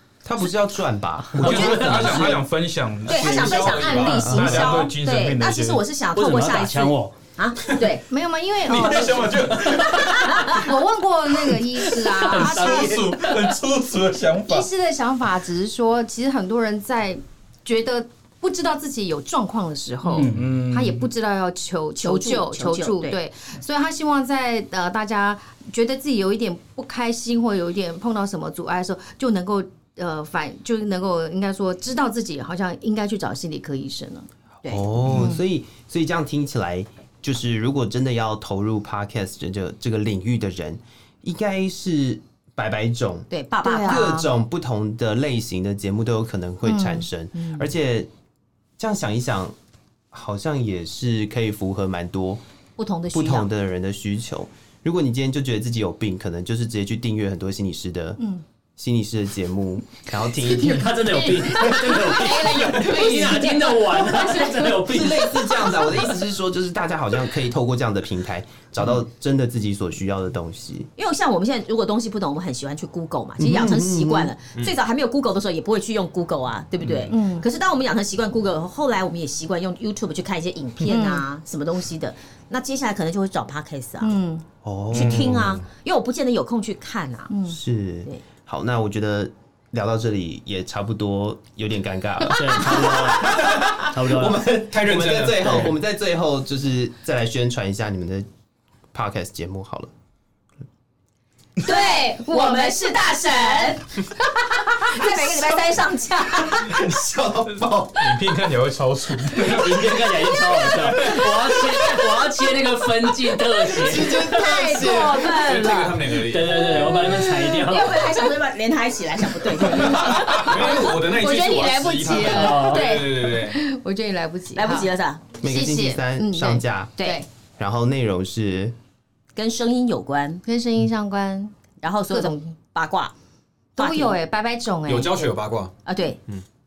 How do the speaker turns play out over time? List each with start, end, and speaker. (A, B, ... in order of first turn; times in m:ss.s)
0:00.2-0:02.4 A
0:01.3-0:02.4 B
0:01.4-0:05.8 C
0:03.1-0:08.1 D
0:04.1-0:04.9 A
0:06.1-0:07.2 B
0:08.1-0:09.8 E
0:08.7-0:10.7 C
0:09.9-0:10.4 D
0:10.4-0:13.0 E
0:11.5-0:14.7 C
0:12.2-0:13.5 B
0:14.5-0:34.3 E
0:20.1-0:20.6 B
0:20.2-0:21.1 C
0:22.0-0:23.2 D
0:34.6-0:43.3 A
0:35.0-0:35.4 E
0:43.3-0:44.1 D
0:43.6-0:44.3 E
0:43.8-0:48.1 A
0:46.7-0:47.5 E
0:48.8-0:49.6 A
0:50.1-0:52.4 A
0:52.8-0:53.5 D
0:53.1-0:58.2 A
0:58.8-1:01.0 A
1:00.4-1:05.7 B
1:01.1-1:05.2 E
1:04.8-1:10.9 A
1:11.0-1:24.2 D
1:13.4-1:14.3 A
1:16.8-1:17.1 A
1:17.1-1:17.5 E
1:20.8-1:21.2 E
1:24.0-1:24.4 E
1:24.6-1:25.6 A
1:24.9-1:27.3 D
1:27.3-1:27.6 E
1:27.5-1:38.3 A
1:32.3-1:34.4 B
1:34.5-1:35.8 F
1:38.9-1:39.9 A
1:41.6-1:46.8 D
1:41.6-1:45.7 E
1:46.5-1:48.3 A
1:48.0-1:52.0 C
1:49.3-1:54.3 B
1:53.7-1:55.4 A
1:54.1-1:56.1 D
1:55.2-1:57.0 F
1:56.2-1:58.1 B
1:57.0-1:57.6 E
1:57.5-2:00.7 D
1:59.8-2:04.9 E
1:59.9-2:03.6 F
2:02.2-2:03.2 D
2:02.2-2:02.9 B
2:04.6-2:05.3 D
2:05.4-2:07.0 A
2:05.4-2:07.3 E
2:07.0-2:07.2 D
2:07.6-2:08.8 A
2:09.4-2:10.4 D
2:10.5-2:12.6 E
2:11.8-2:13.1 D
2:13.8-2:15.2 E
2:13.8-2:14.2 D
2:14.9-2:15.7 F
2:15.9-2:16.2 D